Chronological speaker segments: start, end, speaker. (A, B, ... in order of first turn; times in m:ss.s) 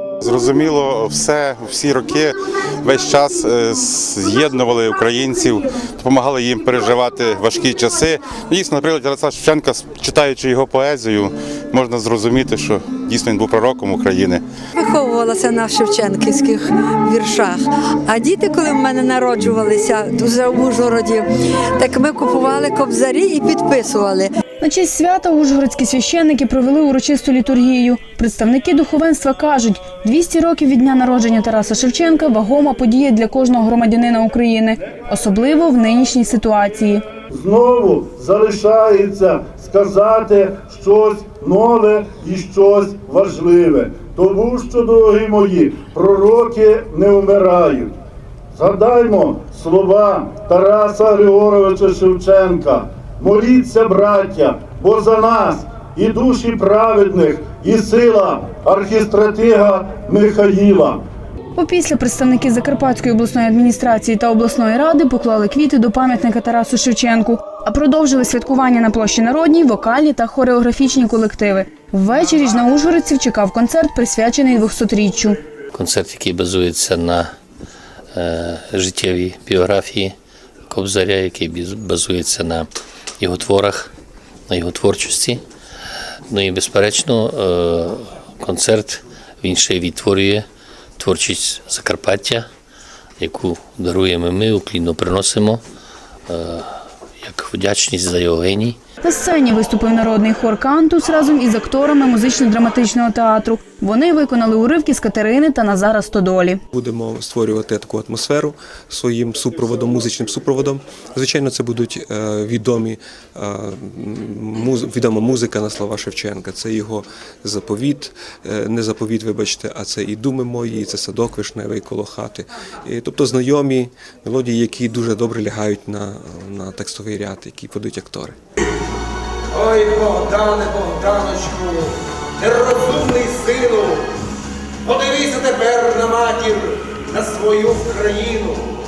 0:00.2-0:14.4 A
0:14.8-0:21.2 B
0:21.8-0:24.3 B
0:24.6-0:37.0 C
0:37.3-0:47.9 D
0:48.5-1:01.0 D
1:01.6-1:15.4 C
1:15.7-1:17.3 E
1:18.1-1:20.1 E
1:20.7-1:22.7 E
1:23.2-1:23.9 E
1:24.5-1:25.4 E
1:26.3-1:30.4 E
1:31.0-1:32.4 E
1:33.2-1:35.6 E
1:36.3-1:36.7 E
1:37.2-1:38.8 E
1:39.0-1:46.6 C
1:46.7-2:08.3 F
2:09.5-2:11.8 G
2:12.4-2:14.0 G
2:14.9-2:18.6 G